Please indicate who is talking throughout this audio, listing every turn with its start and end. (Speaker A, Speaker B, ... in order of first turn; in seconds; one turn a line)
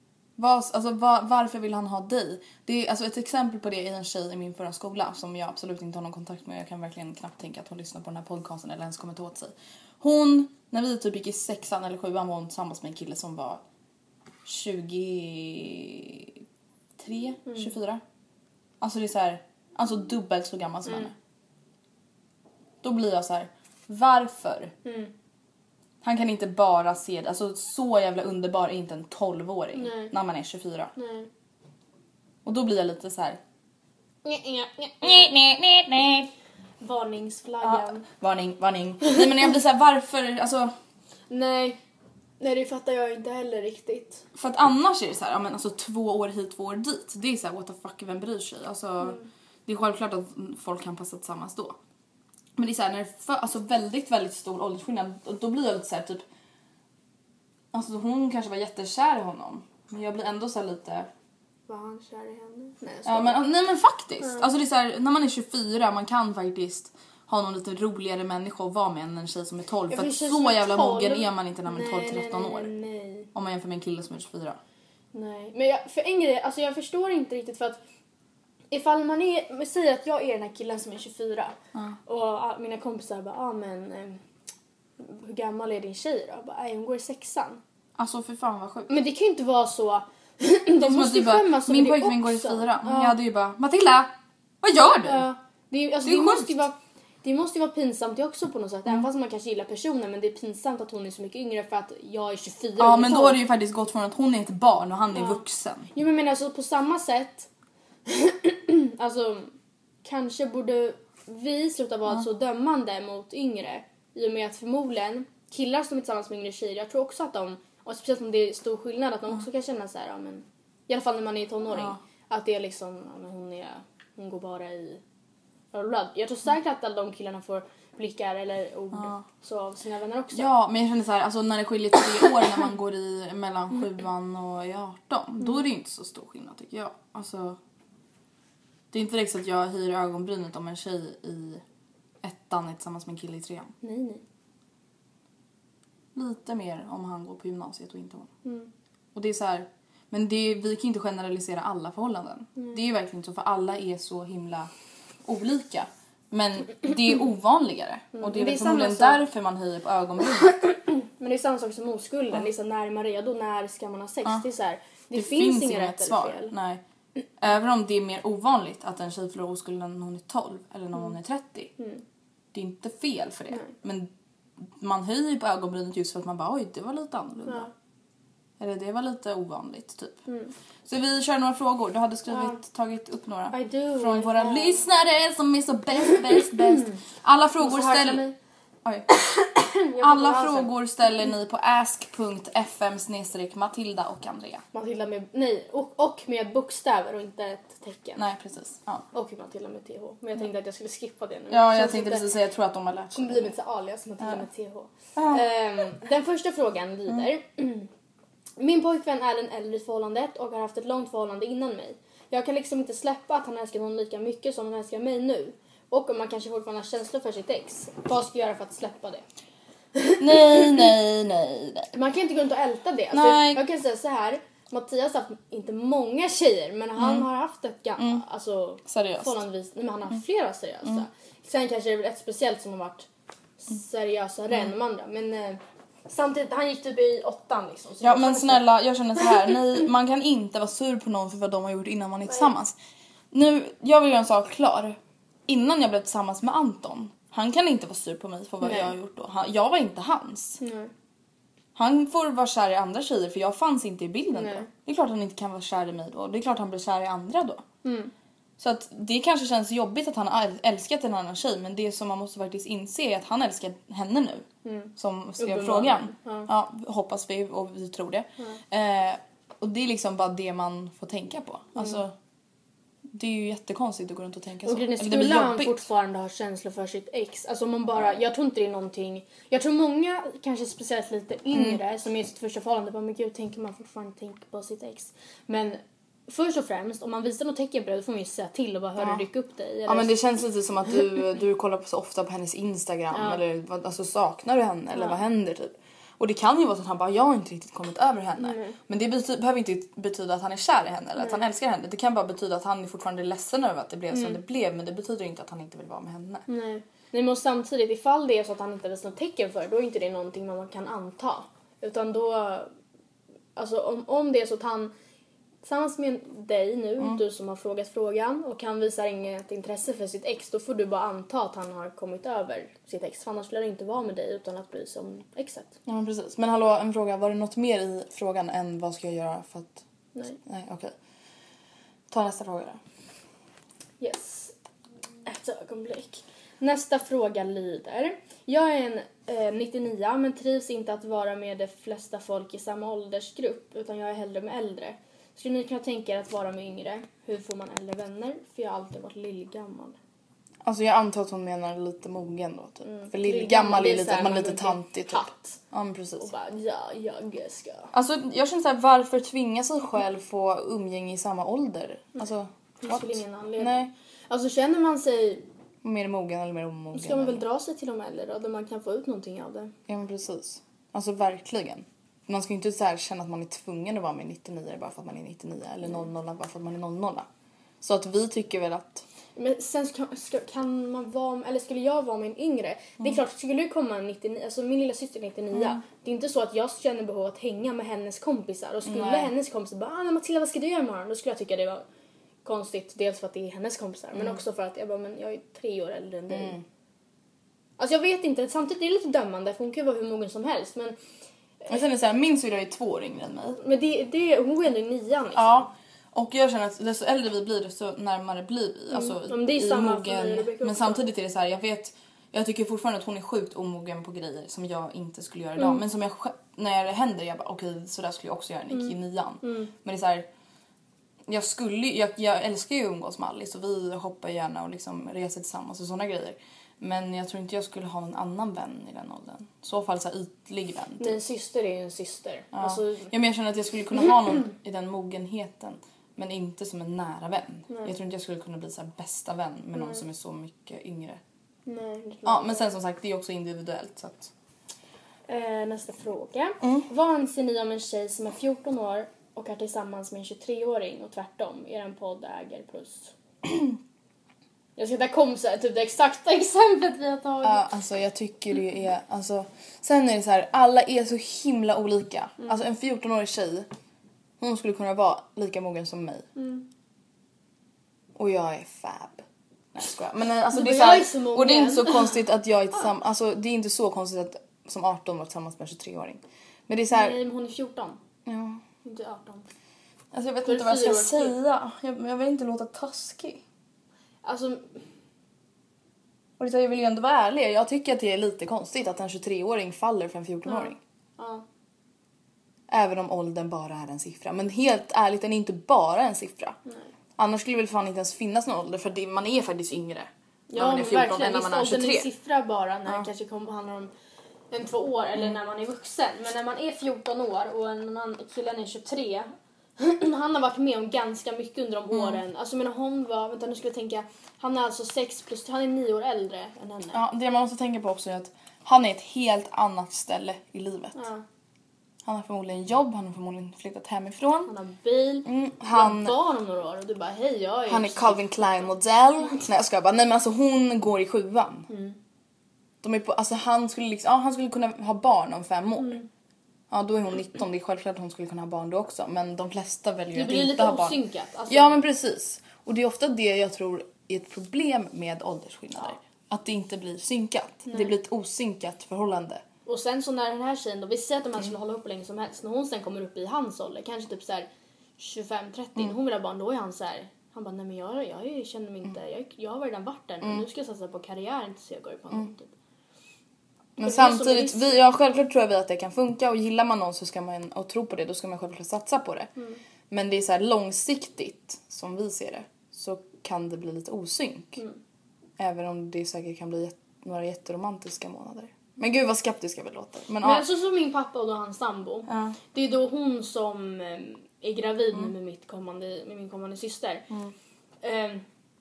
Speaker A: 0.4-13.6
Speaker A: 14.4-16.4
Speaker A: 17.0-18.0
Speaker B: 17.5-17.7
Speaker A: 18.8-21.1
Speaker B: 20.9-21.1
Speaker A: 22.8-24.7
Speaker B: 24.8-25.1
Speaker A: 26.0-30.9
Speaker B: 29.7-30.1
Speaker B: 30.9-31.3
Speaker A: 32.4-33.4
Speaker B: 34.2-35.3
Speaker A: 35.0-36.3
Speaker B: 36.8-38.0
Speaker A: 37.6-40.7
Speaker B: 41.3-41.8
Speaker B: 42.4-44.2
Speaker A: 44.3-51.8
Speaker A: 52.5-56.2
Speaker A: 57.7-61.1
Speaker B: 61.7-63.4
Speaker A: 63.0-72.7
Speaker B: 64.2-64.5
Speaker B: 69.9-73.3
Speaker A: 73.3-74.6
Speaker B: 75.1-77.8
Speaker B: 78.7-81.5
Speaker B: 82.1-84.2
Speaker B: 85.0-87.6
Speaker A: 88.0-88.9
Speaker B: 88.9-93.2
Speaker A: 90.8-95.3
Speaker B: 94.8-103.4
Speaker A: 96.0-96.6
Speaker A: 102.8-105.9
Speaker B: 105.1-105.4
Speaker B: 105.9-107.5
Speaker B: 108.1-125.0
Speaker A: 121.7-122.0
Speaker B: 125.7-130.5
Speaker A: 128.9-129.2
Speaker A: 130.3-137.6
Speaker A: 138.9-141.6
Speaker A: 142.2-143.7
Speaker B: 143.8-144.2
Speaker A: 146.1-148.3
Speaker B: 148.4-148.7
Speaker A: 149.1-154.7
Speaker A: 155.2-160.5
Speaker B: 158.1-159.2
Speaker B: 160.4-166.5
Speaker A: 165.1-166.8
Speaker A: 167.4-171.7
Speaker B: 171.8-172.0
Speaker A: 172.5-174.1
Speaker A: 174.8-177.7
Speaker A: 178.6-180.2
Speaker B: 180.3-180.5
Speaker A: 180.8-188.2
Speaker B: 182.3-182.6
Speaker B: 183.5-184.8
Speaker B: 187.6-188.3
Speaker A: 188.8-189.1
Speaker B: 189.1-190.7
Speaker A: 190.0-194.6
Speaker B: 194.7-198.2
Speaker A: 198.2-199.1
Speaker B: 199.1-202.3
Speaker A: 201.5-203.5
Speaker B: 203.1-207.9
Speaker A: 205.2-205.4
Speaker B: 208.6-219.2
Speaker B: 219.9-220.9
Speaker A: 220.2-221.9
Speaker B: 221.9-233.1
Speaker A: 223.1-223.6
Speaker A: 227.0-227.3
Speaker A: 228.0-228.2
Speaker A: 228.8-229.4
Speaker B: 233.6-238.7
Speaker A: 238.0-242.8
Speaker A: 243.3-250.6
Speaker B: 248.6-248.9
Speaker B: 250.6-250.9
Speaker A: 251.8-257.6
Speaker B: 254.3-254.7
Speaker B: 257.8-258.1
Speaker A: 258.6-272.1
Speaker B: 264.6-266.5
Speaker A: 273.1-275.8
Speaker B: 274.6-290.2
Speaker A: 281.5-281.8
Speaker A: 289.0-289.2
Speaker A: 289.8-306.5
Speaker B: 293.1-293.4
Speaker B: 298.4-298.8
Speaker B: 301.2-301.4
Speaker B: 304.1-304.4
Speaker B: 306.5-312.7
Speaker B: 313.6-314.9
Speaker B: 315.6-325.8
Speaker A: 325.9-329.8
Speaker A: 330.4-330.9
Speaker A: 332.1-332.8
Speaker B: 334.0-334.5
Speaker B: 335.2-349.9
Speaker A: 350.6-356.3
Speaker B: 352.8-355.6
Speaker B: 356.2-357.9
Speaker A: 357.9-363.9
Speaker B: 362.8-365.4
Speaker A: 365.8-367.4
Speaker B: 366.9-369.7
Speaker A: 369.9-377.3
Speaker A: 377.8-379.1
Speaker B: 379.4-391.8
Speaker A: 385.5-385.8
Speaker A: 388.8-389.3
Speaker B: 392.4-396.6
Speaker A: 396.3-396.6
Speaker B: 397.8-400.9
Speaker A: 401.7-403.6
Speaker B: 403.6-405.7
Speaker A: 405.3-420.3
Speaker B: 408.9-411.0
Speaker B: 418.7-419.7
Speaker A: 421.3-431.2
Speaker B: 431.0-433.1
Speaker A: 432.5-441.2
Speaker B: 437.7-437.9
Speaker B: 441.6-442.6
Speaker A: 442.2-444.3
Speaker B: 445.3-453.1
Speaker A: 453.5-453.7
Speaker B: 454.8-457.6
Speaker A: 457.4-463.7
Speaker A: 464.4-466.3
Speaker B: 466.4-466.7
Speaker A: 468.1-477.2
Speaker B: 470.5-472.2
Speaker B: 476.9-478.0
Speaker A: 478.2-478.6
Speaker B: 478.8-479.4
Speaker A: 480.1-483.4
Speaker B: 480.4-481.4
Speaker B: 484.2-484.8
Speaker A: 486.4-490.8
Speaker B: 490.4-491.4
Speaker A: 492.7-496.6
Speaker A: 497.2-502.1
Speaker B: 500.5-503.9
Speaker B: 504.5-517.0
Speaker A: 511.9-512.2
Speaker A: 516.9-521.0
Speaker B: 520.9-521.2
Speaker A: 522.0-524.5
Speaker B: 524.5-528.7
Speaker A: 525.2-526.2
Speaker A: 527.7-531.7
Speaker B: 531.7-532.0
Speaker A: 532.8-536.0
Speaker B: 535.8-536.1
Speaker A: 536.7-549.4
Speaker B: 540.1-541.8
Speaker B: 549.6-554.5
Speaker B: 555.0-562.5
Speaker B: 563.8-564.8
Speaker A: 563.8-569.3
Speaker A: 569.9-574.6
Speaker A: 575.4-580.5
Speaker B: 580.2-587.1
Speaker A: 582.1-582.4
Speaker B: 587.8-588.2